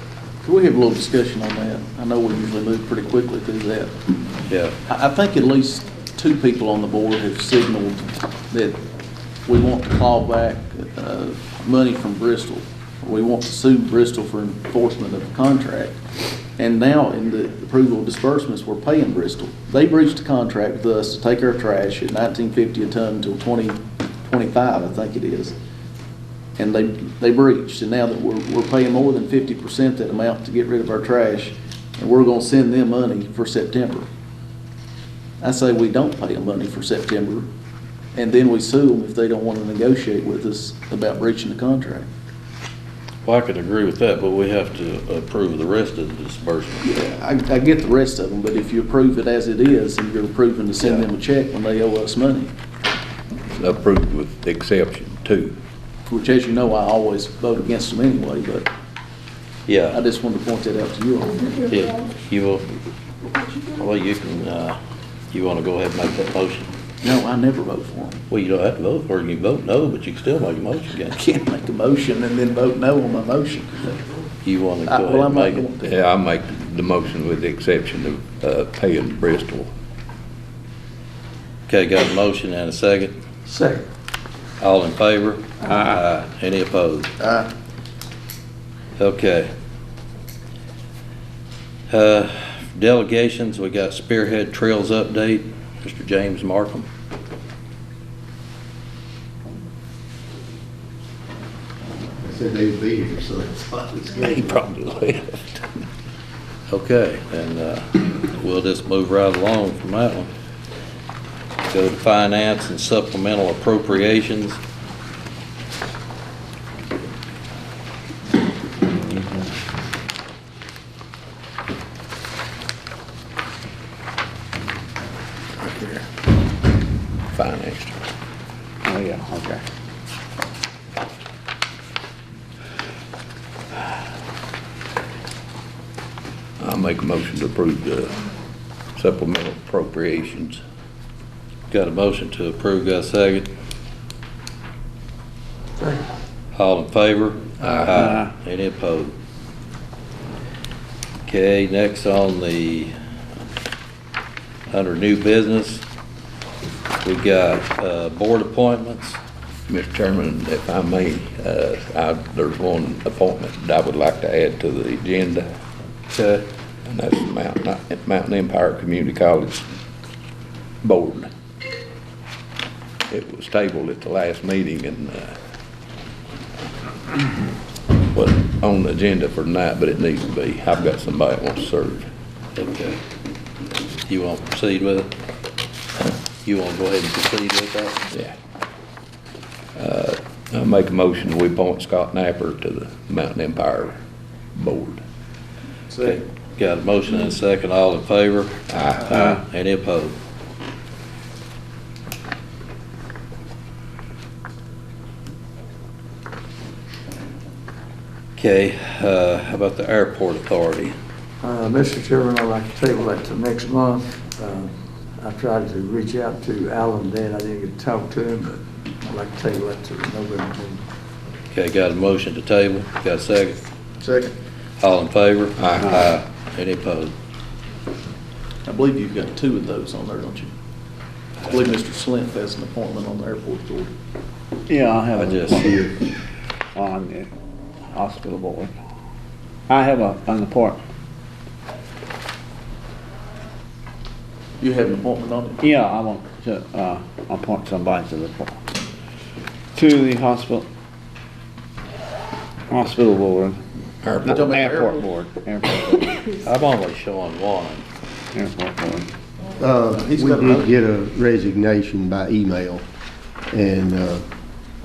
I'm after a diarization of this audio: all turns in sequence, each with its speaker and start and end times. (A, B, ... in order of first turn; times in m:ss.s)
0:00.4-0:03.9 A
0:04.5-0:04.8 B
0:04.8-0:08.8 A
0:09.4-0:16.0 A
0:16.6-0:25.5 A
0:26.6-0:34.1 A
0:35.4-0:37.5 A
0:38.1-0:42.1 A
0:43.2-0:46.9 B
0:46.8-0:52.5 A
0:53.5-0:55.6 C
0:56.1-0:58.7 A
0:59.7-1:00.0 B
0:59.9-1:01.6 A
1:01.6-1:02.6 B
1:03.7-1:04.8 B
1:05.3-1:06.7 B
1:07.0-1:08.2 A
1:08.3-1:11.2 B
1:11.1-1:14.0 A
1:14.4-1:15.6 B
1:14.9-1:15.9 A
1:15.8-1:19.7 C
1:21.7-1:23.1 B
1:23.4-1:23.9 D
1:24.6-1:27.1 B
1:27.2-1:27.5 A
1:29.0-1:29.5 B
1:31.9-1:36.9 B
1:42.2-1:44.6 E
1:44.2-1:45.8 C
1:46.7-1:50.3 B
1:51.7-1:54.6 B
1:59.0-1:59.5 F
2:05.6-2:06.0 C
2:07.3-2:08.0 C
2:08.8-2:09.6 F
2:16.6-2:18.2 C
2:19.0-2:20.6 C
2:21.7-2:23.5 B
2:26.5-2:29.1 B
2:27.6-2:27.9 C
2:31.2-2:32.9 B
2:34.7-2:35.8 B
2:37.0-2:39.2 B
2:39.7-2:45.5 C
2:46.1-2:46.4 B
2:46.8-2:49.6 C
2:50.8-2:51.3 C
2:53.1-2:55.4 C
2:58.1-3:02.1 C
3:02.6-3:03.0 B
3:04.0-3:05.1 B
3:06.4-3:08.0 B
3:09.8-3:14.0 C
3:14.5-3:15.0 C
3:15.9-3:16.2 A
3:16.0-3:20.1 B
3:18.7-3:19.4 C
3:28.4-3:30.9 B
3:31.4-3:40.8 D
3:41.5-3:43.6 B
3:44.0-3:44.3 A
3:44.8-3:47.1 B
3:45.6-3:45.9 C
3:48.6-3:50.5 A
3:51.5-3:53.9 A
3:54.7-3:56.0 F
3:55.2-3:55.8 B
3:56.7-3:57.3 F
3:57.9-3:58.7 F
3:59.7-4:00.8 F
4:04.6-4:05.6 A
4:05.6-4:08.6 F
4:09.7-4:10.7 F
4:12.7-4:13.6 F
4:14.0-4:14.5 C
4:14.2-4:16.2 F
4:14.3-4:15.0 A
4:16.3-4:17.8 B
4:18.3-4:19.1 F
4:19.6-4:22.8 E
4:19.9-4:20.7 A
4:23.5-4:24.2 E